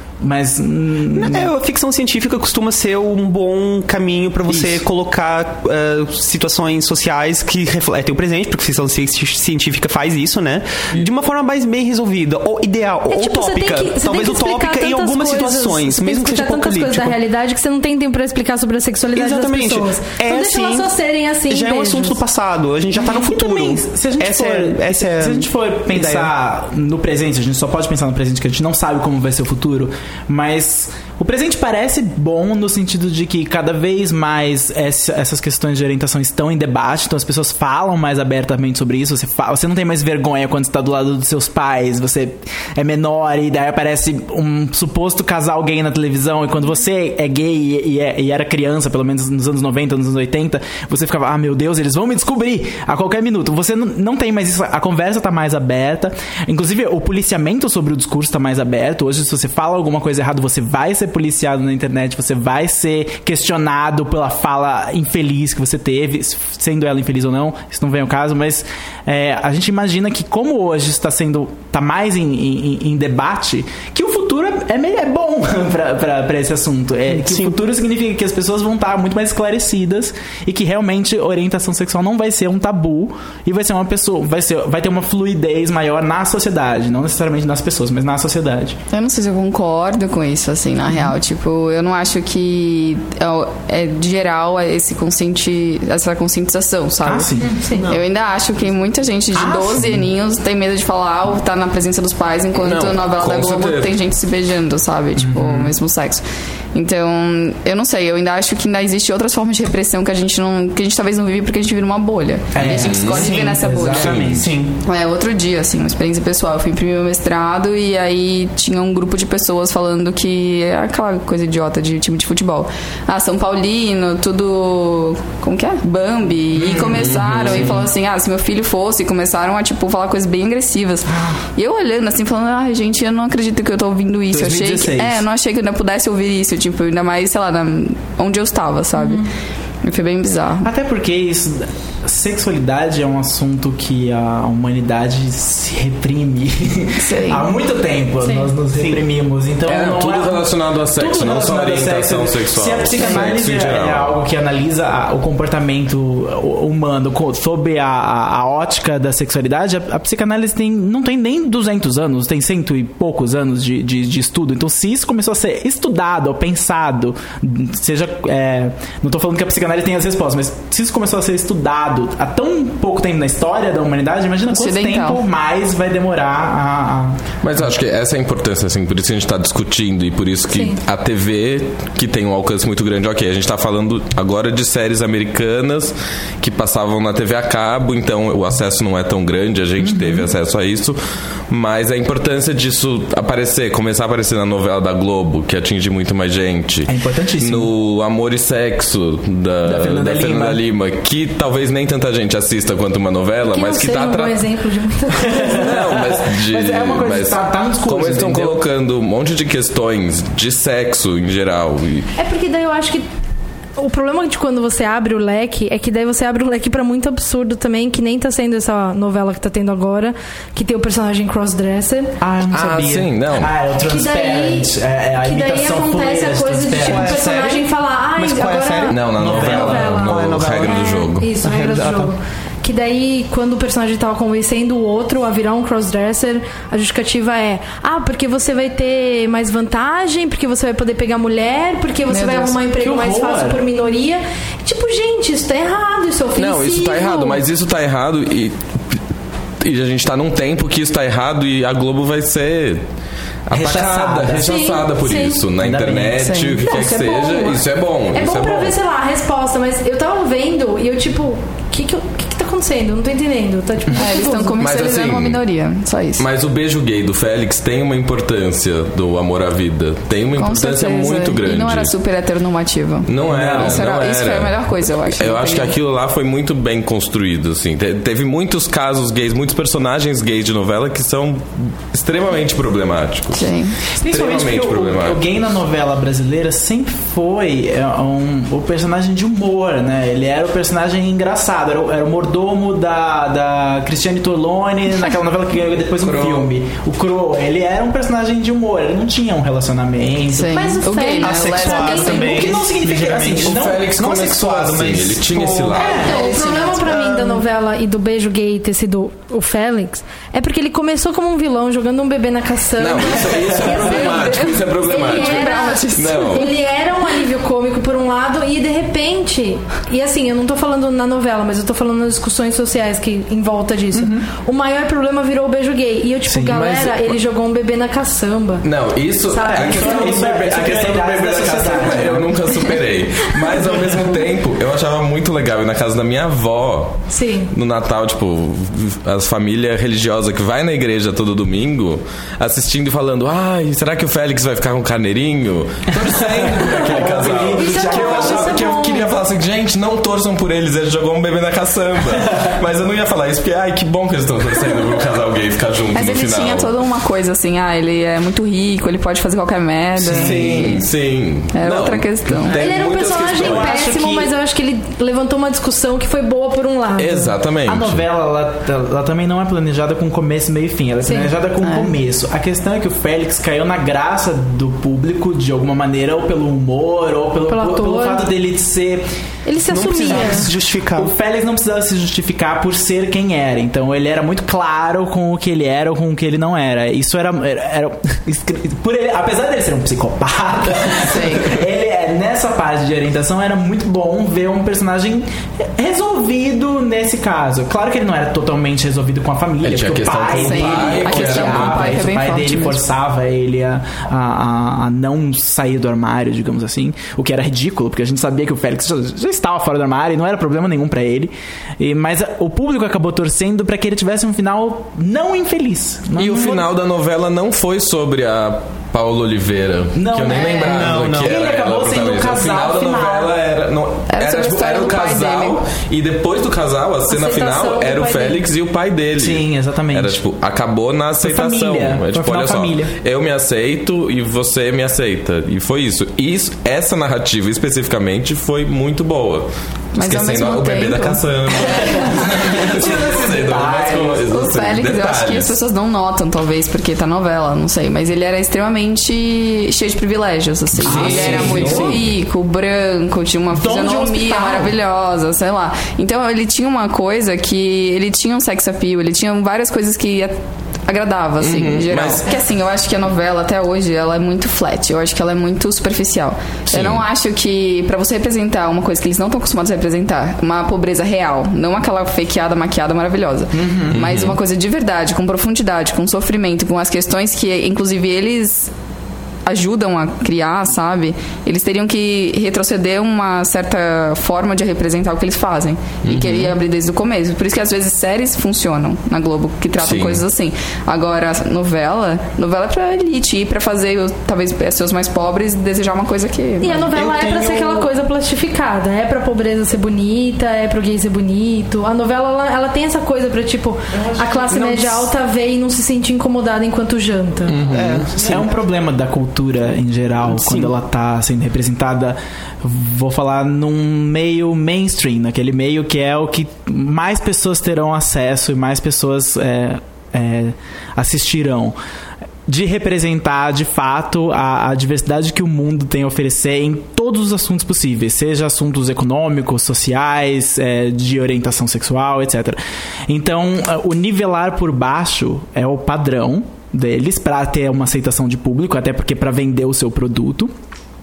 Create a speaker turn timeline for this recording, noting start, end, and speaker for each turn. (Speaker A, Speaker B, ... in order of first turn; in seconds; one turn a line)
Speaker A: 0.2-1.5
Speaker B: 1.1-17.2
Speaker A: 4.5-4.8
Speaker C: 13.1-22.2
Speaker B: 19.1-20.9
Speaker B: 21.5-26.3
Speaker A: 22.9-88.8
Speaker B: 77.1-77.6
Speaker D: 88.9-97.3
Speaker A: 97.0-97.5
Speaker C: 97.4-97.9
Speaker B: 97.7-98.0
Speaker D: 97.9-106.2
Speaker A: 99.3-100.1
Speaker E: 102.5-103.9
Speaker A: 105.2-105.7
Speaker D: 106.7-114.2
Speaker A: 112.5-114.5
Speaker E: 112.7-113.3
Speaker B: 113.0-114.8
Speaker E: 114.0-114.4
Speaker D: 114.8-139.2
Speaker A: 126.6-127.8
Speaker E: 126.7-127.8
Speaker A: 131.1-131.4
Speaker A: 134.3-135.2
Speaker C: 138.9-139.3
Speaker D: 139.8-140.7
Speaker A: 140.6-177.2
Speaker D: 147.0-147.5
Speaker C: 148.2-148.5
Speaker B: 148.7-149.0
Speaker E: 149.6-154.2
Speaker D: 174.5-175.2
Speaker E: 177.4-191.0
Speaker C: 180.5-180.8
Speaker A: 189.8-190.3
Speaker E: 191.5-204.4
Speaker A: 196.9-197.7
Speaker A: 199.6-200.6
Speaker C: 203.4-205.8
Speaker A: 205.2-208.6
Speaker E: 205.5-212.1
Speaker C: 212.2-213.1
Speaker C: 213.8-222.1
Speaker A: 222.2-227.2
Speaker E: 222.5-223.5
Speaker C: 223.8-247.4
Speaker B: 226.8-230.8
Speaker E: 228.9-231.3
Speaker A: 229.1-230.0
Speaker B: 231.4-232.1
Speaker D: 242.1-242.6
Speaker A: 242.7-243.6
Speaker E: 246.3-249.0
Speaker E: 249.6-252.8
Speaker E: 253.5-258.8
Speaker A: 253.5-254.8
Speaker C: 254.4-255.4
Speaker A: 255.6-256.4
Speaker D: 256.2-256.6
Speaker C: 256.6-257.6
Speaker C: 258.1-264.6
Speaker D: 263.9-266.2
Speaker E: 264.6-265.4
Speaker E: 266.2-271.9
Speaker D: 270.3-275.8
Speaker E: 273.1-283.5
Speaker A: 273.3-273.9
Speaker D: 283.3-283.8
Speaker A: 283.9-300.6
Speaker E: 284.0-285.2
Speaker E: 295.9-296.5
Speaker D: 300.3-302.5
Speaker C: 300.5-302.6
Speaker B: 301.2-307.4
Speaker A: 302.0-303.8
Speaker E: 303.4-306.1
Speaker C: 305.7-328.6
Speaker A: 305.8-306.0
Speaker D: 306.1-306.6
Speaker E: 312.8-316.5
Speaker D: 313.9-314.4
Speaker D: 315.0-316.4
Speaker A: 326.3-326.6
Speaker E: 326.4-327.2
Speaker E: 328.6-356.7
Speaker C: 329.3-330.2
Speaker A: 329.4-332.3
Speaker C: 337.1-337.5
Speaker A: 346.1-348.7
Speaker C: 347.5-349.2
Speaker D: 355.9-360.9
Speaker E: 360.0-363.9
Speaker A: 360.0-360.8
Speaker D: 361.5-362.6
Speaker C: 362.5-367.4
Speaker A: 363.3-364.3
Speaker E: 366.9-368.0
Speaker A: 367.6-379.0
Speaker C: 371.0-371.3
Speaker D: 371.6-371.9
Speaker C: 377.5-378.3
Speaker C: 379.4-380.5
Speaker B: 379.6-381.1
Speaker A: 380.0-416.6
Speaker D: 390.9-391.6
Speaker E: 399.6-402.0
Speaker D: 400.3-402.8
Speaker E: 416.2-445.5
Speaker A: 419.9-423.3
Speaker B: 420.6-421.4
Speaker D: 424.1-425.6
Speaker C: 427.1-428.4
Speaker A: 429.2-430.2
Speaker A: 431.2-432.9
Speaker D: 439.9-442.1
Speaker A: 441.8-444.3
Speaker D: 444.2-478.7
Speaker E: 450.7-452.1
Speaker A: 450.8-452.0
Speaker A: 453.5-454.7
Speaker E: 461.4-462.2
Speaker E: 466.7-467.0
Speaker A: 473.5-474.0
Speaker E: 473.9-474.4
Speaker D: 479.4-496.9
Speaker E: 486.1-486.6
Speaker E: 489.8-490.2
Speaker C: 496.6-507.6
Speaker B: 496.9-497.9
Speaker E: 507.5-508.1
Speaker B: 507.6-508.5
Speaker A: 508.1-521.8
Speaker B: 510.3-510.7
Speaker A: 522.5-540.5